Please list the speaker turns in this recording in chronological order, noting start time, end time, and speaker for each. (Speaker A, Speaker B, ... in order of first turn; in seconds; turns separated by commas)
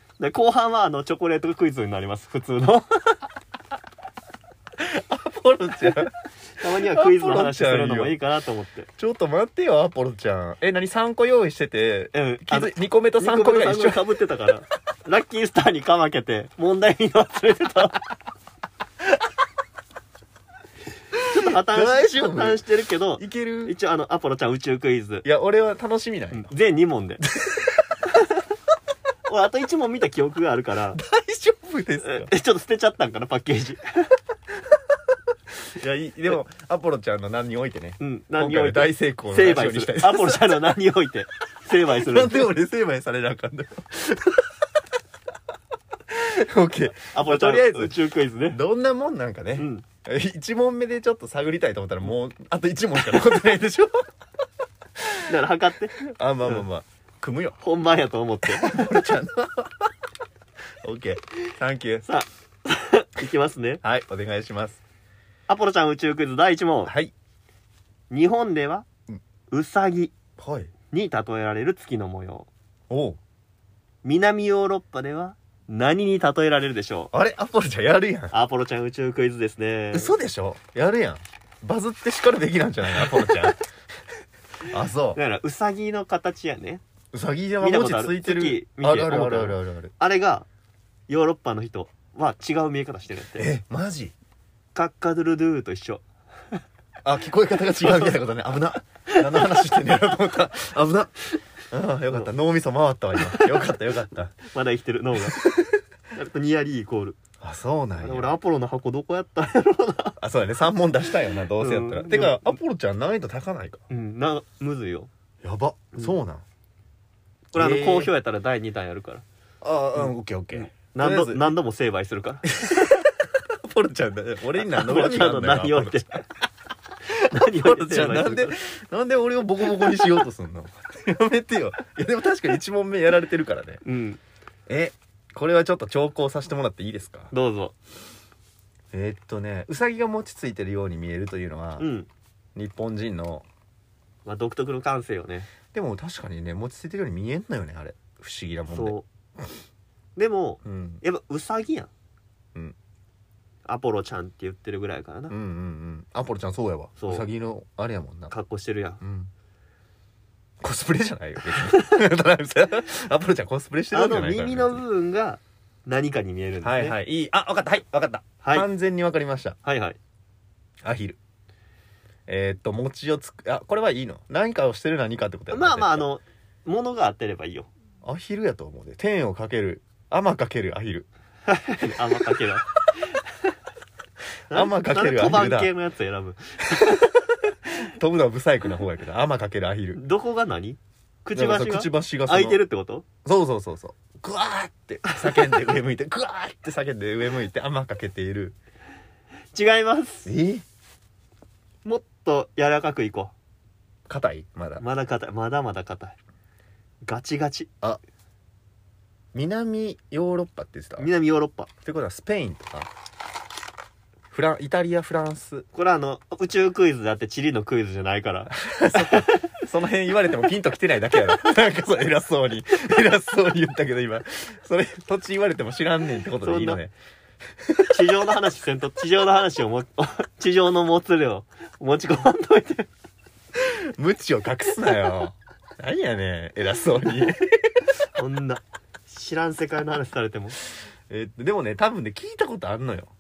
Speaker A: 0.2-3.2, Speaker B: 4.8-8.2, Speaker A: 6.6-8.9, Speaker B: 9.0-14.1, Speaker A: 12.1-18.1, Speaker A: 21.3-25.2, Speaker B: 21.4-22.6, Speaker B: 23.2-23.7, Speaker B: 25.2-26.5, Speaker A: 26.3-27.2, Speaker B: 27.3-27.9, Speaker A: 28.2-28.4, Speaker A: 29.2-31.0, Speaker B: 30.9-32.3, Speaker A: 32.0-34.1, Speaker B: 35.7-40.6, Speaker A: 38.0-42.5, Speaker B: 41.9-44.5, Speaker B: 46.1-54.1, Speaker A: 47.0-48.6, Speaker A: 49.6-49.8, Speaker B: 55.0-55.3, Speaker A: 55.2-56.6, Speaker B: 56.0-57.6, Speaker A: 57.6-59.0, Speaker B: 58.5-59.9, Speaker B: 60.8-62.0, Speaker A: 62.0-63.8, Speaker B: 63.8-64.8, Speaker A: 65.5-66.9, Speaker B: 66.8-67.1, Speaker A: 68.1-68.8, Speaker A: 69.5-70.1, Speaker B: 70.4-70.7, Speaker A: 70.9-72.5, Speaker B: 72.9-73.2, Speaker A: 74.0-77.1, Speaker B: 77.1-78.3, Speaker A: 78.3-80.1, Speaker B: 79.9-83.6, Speaker B: 84.7-85.2, Speaker A: 85.1-86.8, Speaker B: 87.1-89.9, Speaker A: 87.6-90.5, Speaker A: 91.1-93.5, Speaker B: 93.4-94.1, Speaker A: 94.7-96.6, Speaker B: 97.0-101.2, Speaker A: 97.8-98.2, Speaker A: 99.1-100.0, Speaker B: 101.7-104.3, Speaker A: 103.2-103.7, Speaker A: 104.4-105.4, Speaker B: 105.2-105.8, Speaker A: 106.1-107.2, Speaker B: 107.4-108.3, Speaker A: 108.0-110.2, Speaker B: 110.2-113.8, Speaker A: 111.5-112.6, Speaker A: 113.9-115.1, Speaker B: 115.4-116.4, Speaker A: 117.5-119.2, Speaker B: 117.5-118.1, Speaker B: 119.6-121.5, Speaker A: 119.9-122.6, Speaker B: 122.5-126.2, Speaker A: 124.6-126.2, Speaker B: 127.1-133.8, Speaker A: 127.3-128.6, Speaker A: 133.8-134.2, Speaker B: 134.7-137.3, Speaker A: 137.3-137.7, Speaker B: 138.9-141.9, Speaker A: 141.8-142.1, Speaker B: 142.6-143.4, Speaker A: 144.2-145.5, Speaker B: 145.7-149.0, Speaker A: 148.7-149.1, Speaker A: 150.2-151.9, Speaker B: 150.6-151.0, Speaker A: 153.6-155.3, Speaker B: 155.3-158.3, Speaker A: 157.0-157.3, Speaker A: 158.3-159.0, Speaker B: 159.0-159.3, Speaker B: 160.6-164.8, Speaker A: 163.9-166.9, Speaker B: 166.6-169.6, Speaker A: 168.4-168.7, Speaker A: 169.6-170.0, Speaker B: 170.8-171.2, Speaker B: 172.3-176.1, Speaker A: 175.5-177.7, Speaker B: 178.0-181.1, Speaker A: 181.5-182.7, Speaker B: 184.5-185.7, Speaker A: 184.5-186.9, Speaker B: 186.8-187.1, Speaker B: 187.8-190.0, Speaker A: 189.9-193.1, Speaker B: 191.3-192.6, Speaker B: 193.2-198.5, Speaker A: 195.1-195.6, Speaker A: 199.5-200.3, Speaker B: 200.2-200.6, Speaker A: 201.8-203.3, Speaker B: 204.1-204.8, Speaker A: 204.8-206.2, Speaker A: 207.1-207.7, Speaker B: 209.3-211.1, Speaker A: 211.0-211.7, Speaker B: 211.8-212.9, Speaker B: 214.3-215.7, Speaker A: 215.7-219.5, Speaker B: 218.5-226.9, Speaker A: 226.4-226.8, Speaker B: 227.6-228.0, Speaker A: 227.9-232.9, Speaker B: 233.6-237.9, Speaker A: 238.1-240.6, Speaker B: 241.1-243.1